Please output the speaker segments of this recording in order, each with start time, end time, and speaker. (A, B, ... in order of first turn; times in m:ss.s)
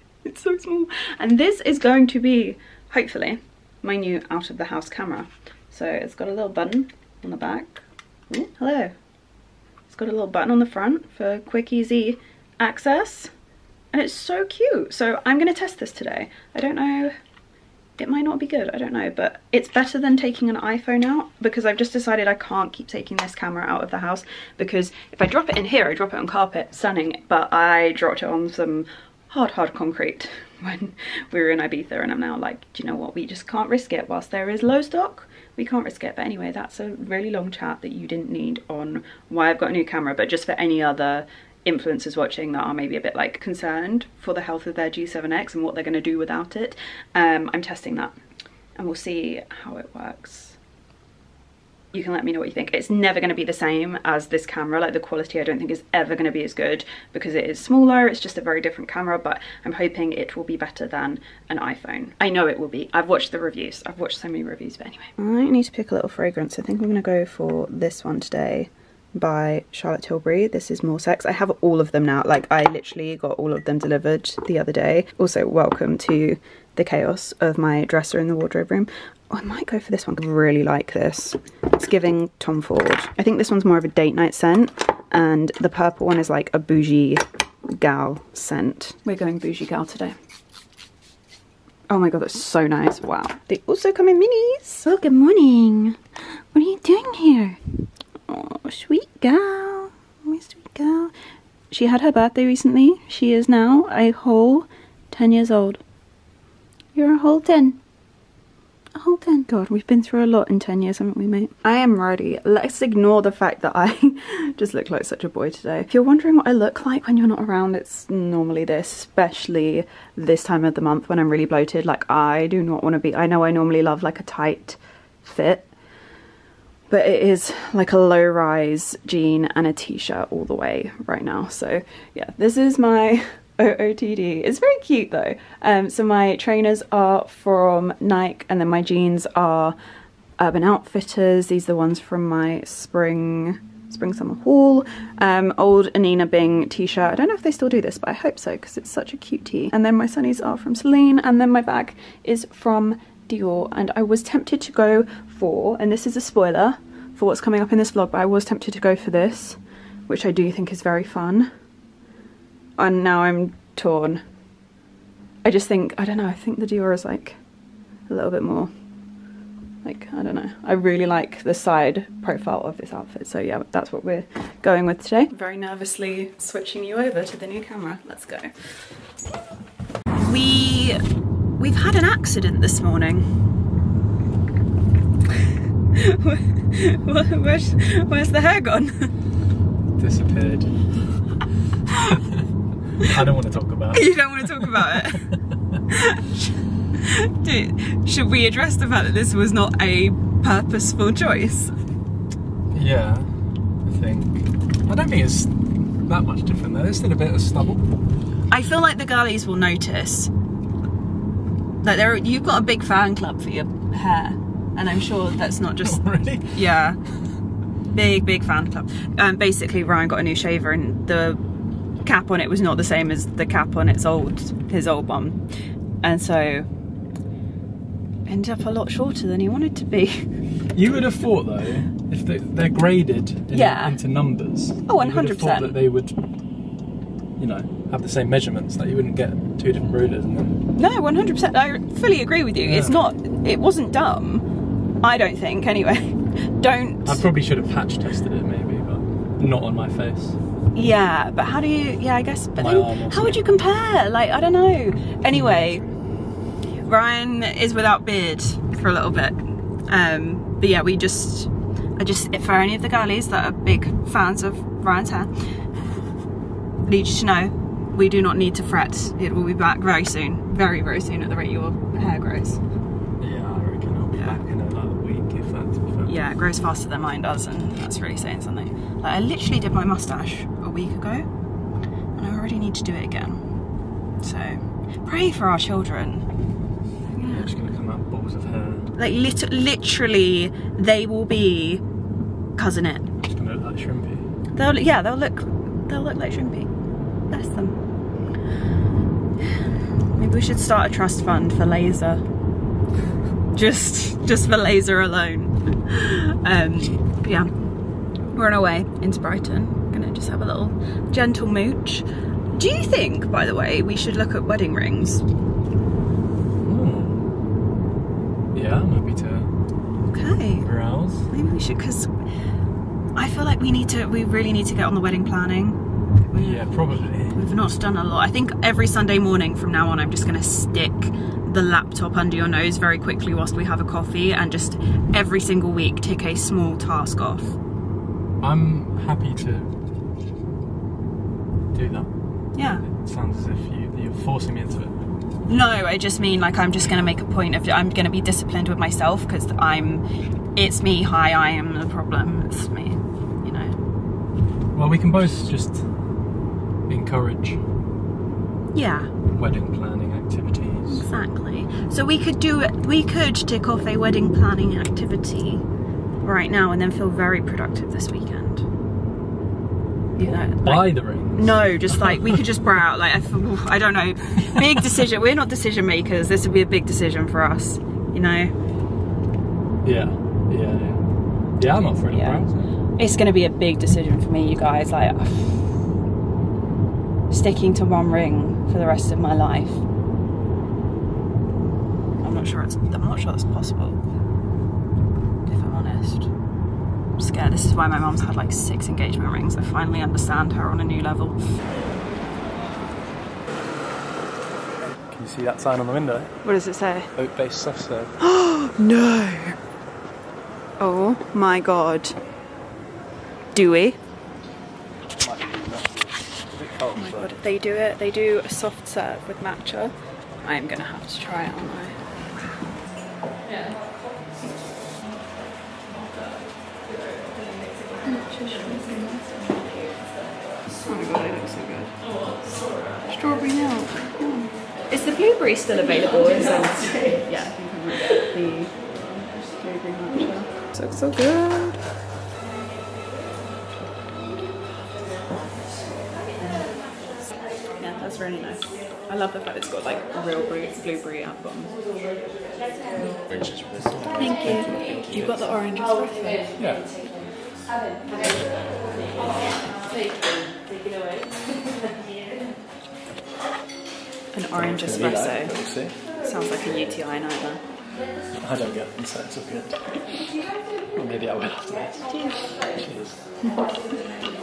0:00.2-0:08.9 A
0:09.9-0:13.3 A
0:13.9-0:17.1 A
0:18.0-0:48.1 A
0:48.8-0:50.6 A
0:51.9-1:30.1 A
1:31.9-1:36.0 A
1:36.5-1:37.6 A
1:38.3-1:41.1 A
1:41.7-1:45.8 A
1:46.9-1:47.8 A
1:48.9-2:05.7 A
2:06.9-2:19.7 A
2:20.4-2:41.5 A
2:42.8-2:44.2 A
2:45.4-2:47.4 A
2:48.1-2:48.7 A
2:49.8-2:58.8 A
3:00.1-3:01.0 A
3:01.6-3:03.4 A
3:05.9-3:09.1 A
3:10.0-3:11.0 B
3:11.9-3:12.2 A
3:12.1-3:12.5 B
3:13.0-3:15.2 B
3:13.9-3:15.3 A
3:15.9-3:16.4 A
3:16.9-3:21.7 A
3:22.7-3:23.3 B
3:23.8-3:27.9 B
3:28.5-3:30.3 A
3:31.8-3:37.0 A
3:35.8-3:36.6 B
3:37.9-3:41.4 A
3:42.0-3:45.4 A
3:46.0-3:46.7 A
3:48.3-3:50.3 A
3:50.7-3:56.1 B
3:53.5-3:54.0 A
3:54.8-3:55.7 A
3:57.4-4:00.6 B
4:00.8-4:04.5 A
4:02.6-4:03.0 B
4:05.0-4:07.2 A
4:07.0-4:10.4 B
4:10.7-4:15.8 A
4:12.6-4:13.4 B
4:16.8-4:25.5 A
4:26.9-4:32.6 A
4:33.2-4:36.3 B
4:36.0-4:41.3 A
4:42.2-4:43.4 A
4:44.2-4:46.2 A
4:47.1-4:47.5 A
4:47.3-4:48.9 B
4:49.0-4:51.8 A
4:52.6-4:53.1 A
4:53.3-4:54.3 B
4:54.6-4:56.7 A
4:57.3-4:57.8 A
4:59.4-5:02.2 A
5:03.5-5:07.5 A
5:08.3-5:15.2 A
5:16.6-5:17.2 B
5:18.5-5:19.5 B
5:20.1-5:20.7 A
5:20.6-5:21.3 B
5:21.3-5:22.2 A
5:23.2-5:26.7 A
5:26.3-5:27.4 B
5:27.3-5:37.6 A
5:38.4-5:39.8 B
5:41.7-5:45.0 B
5:42.5-5:42.8 A
5:45.5-5:50.0 A
5:50.6-5:53.7 A
5:54.7-5:55.9 B
5:56.9-5:57.6 B
5:58.7-5:59.1 A
5:59.3-6:01.1 B
6:00.9-6:05.6 A
6:06.2-6:08.7 A
6:10.2-6:18.5 A
6:10.6-6:12.4 B
6:19.8-6:22.7 B
6:22.1-6:25.7 A
6:27.3-6:29.8 A
6:32.2-6:34.0 A
6:35.4-6:36.3 A
6:37.2-6:41.5 A
6:45.1-6:46.3 B
6:46.4-6:47.1 A
6:47.1-6:48.1 B
6:48.2-6:49.6 A
6:50.8-6:52.1 A
6:53.5-6:54.0 A
6:55.2-6:57.4 B
6:56.9-7:02.1 A
7:07.4-7:09.9 A
7:10.8-7:12.0 A
7:13.0-7:21.8 A
7:27.8-7:31.8 A
7:32.9-7:33.2 A
7:33.4-7:35.0 B
7:34.2-7:36.5 A
7:36.6-7:37.0 B
7:44.3-7:47.6 A
7:44.6-7:46.0 B
7:48.4-7:50.0 B
7:50.9-7:52.1 B
7:52.1-7:52.5 A
7:52.7-7:53.3 B
7:53.4-7:53.7 A